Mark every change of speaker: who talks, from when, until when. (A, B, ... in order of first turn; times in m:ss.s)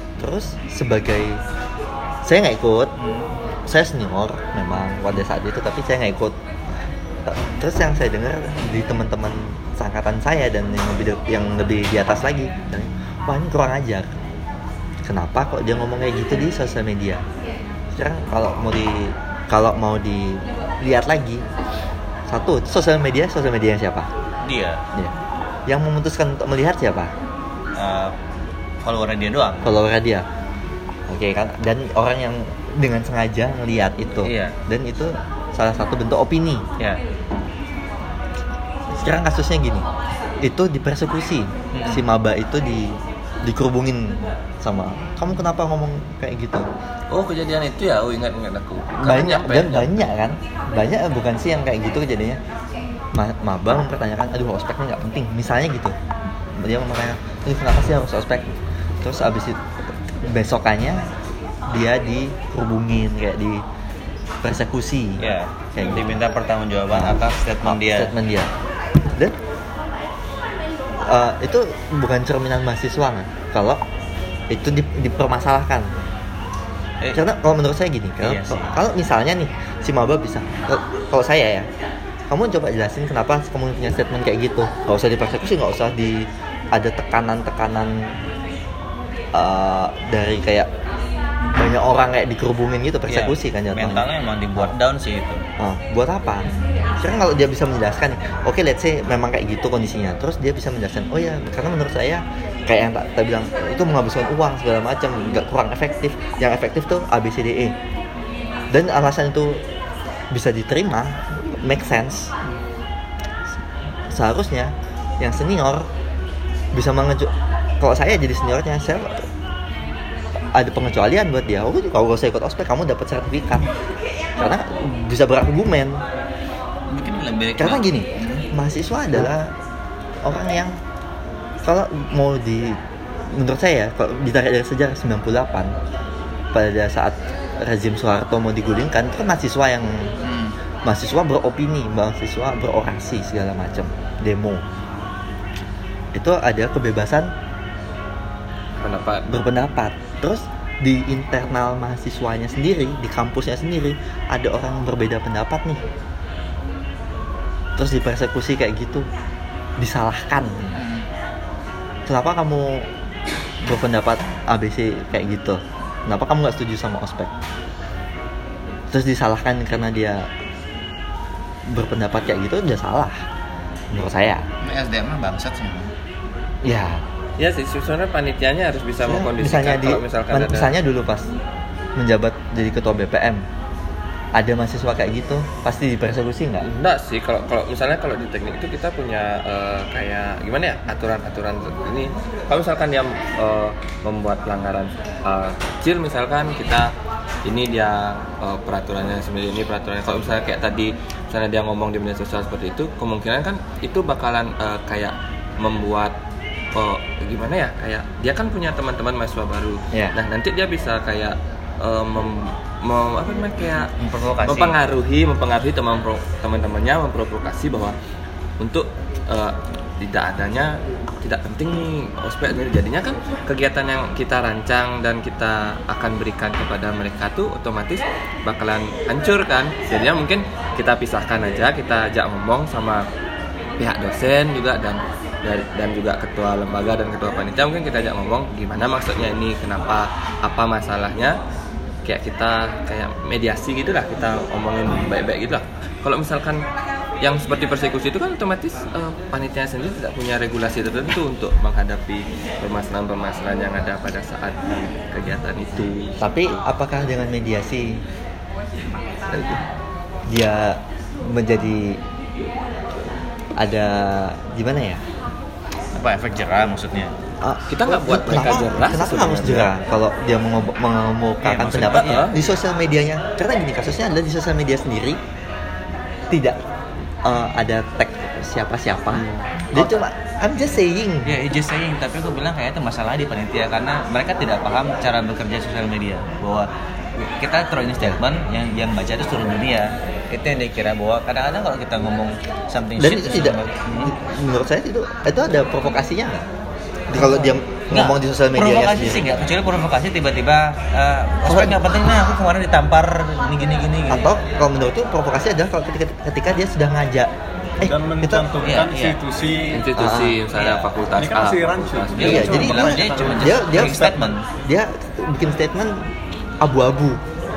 0:00.2-0:01.4 A
0:02.2-0:02.9 A
0:03.0-0:03.3 B
0:03.6-0:06.4 A
0:07.2-0:14.1 A
0:15.0-0:17.2 A
0:17.9-0:21.4 A
0:22.3-0:24.1 A
0:24.4-0:24.8 B
0:25.7-0:27.1 A
0:27.8-0:28.1 B
0:28.8-0:29.7 B
0:29.6-0:30.2 A
0:31.1-0:36.6 A
0:34.2-0:34.6 B
0:38.9-0:39.9 A
0:40.4-0:46.6 A
0:41.7-0:42.1 B
0:47.1-0:49.9 C
0:49.0-0:52.4 A
0:53.1-0:55.9 A
0:56.6-0:58.5 A
0:59.0-0:59.6 A
1:00.2-1:01.1 A
1:01.7-1:03.6 A
1:04.4-1:05.2 A
1:05.2-1:08.1 B
1:05.7-1:06.2 A
1:06.9-1:08.5 A
1:11.0-1:13.8 A
1:14.5-1:15.9 A
1:17.1-1:21.7 A
1:18.2-1:18.8 B
1:22.3-1:28.2 A
1:29.3-1:30.7 A
1:31.6-1:34.1 A
1:33.1-1:35.4 B
1:35.6-1:47.8 A
1:48.7-1:49.6 A
1:50.3-1:52.3 A
1:54.1-1:55.9 A
1:56.7-1:59.3 A
2:00.5-2:03.7 A
2:04.4-2:06.0 A
2:06.9-2:08.5 B
2:07.6-2:09.5 A
2:10.2-2:10.7 A
2:11.6-2:12.8 A
2:13.3-2:15.7 A
2:16.5-2:20.1 A
2:20.2-2:20.6 B
2:20.8-2:24.6 A
2:26.1-2:27.3 A
2:28.8-2:29.2 C
2:29.3-2:35.8 A
2:37.8-2:39.1 A
2:39.8-2:40.8 A
2:40.8-2:41.1 B
2:42.1-2:42.9 A
2:43.6-2:47.3 A
2:48.9-2:50.3 A
2:51.7-2:53.2 A
2:53.9-2:54.4 A
2:54.6-2:55.9 B
2:56.6-2:57.0 A
2:57.4-3:00.7 C
2:59.0-3:01.3 A
3:02.0-3:03.4 A
3:04.4-3:06.7 A
3:06.6-3:16.9 C
3:17.4-3:26.1 C
3:26.7-3:33.9 C
3:34.0-3:34.8 B
3:34.4-3:38.0 C
3:38.6-3:53.0 C
3:53.8-4:01.4 C
4:02.0-4:06.6 C
4:07.2-4:16.6 C
4:16.2-4:18.0 A
4:19.3-4:19.6 A
4:20.3-4:22.0 A
4:23.6-4:25.0 A
4:26.0-4:27.1 B
4:27.4-4:35.2 A
4:27.7-4:29.7 C
4:31.4-4:32.6 B
4:31.9-4:32.3 C
4:36.3-4:36.6 A
4:37.2-4:41.3 A
4:39.1-4:39.4 C
4:41.2-4:54.1 B
4:53.0-4:56.4 A
4:57.1-4:59.3 A
4:57.1-5:04.3 B
5:01.4-5:01.8 A
5:04.1-5:08.5 A
5:07.8-5:09.9 D
5:08.6-5:09.2 B
5:09.7-5:12.6 C
5:09.9-5:10.4 A
5:10.6-5:10.9 B
5:11.1-5:14.4 D
5:12.2-5:14.5 B
5:12.2-5:16.1 A
5:16.6-5:17.2 A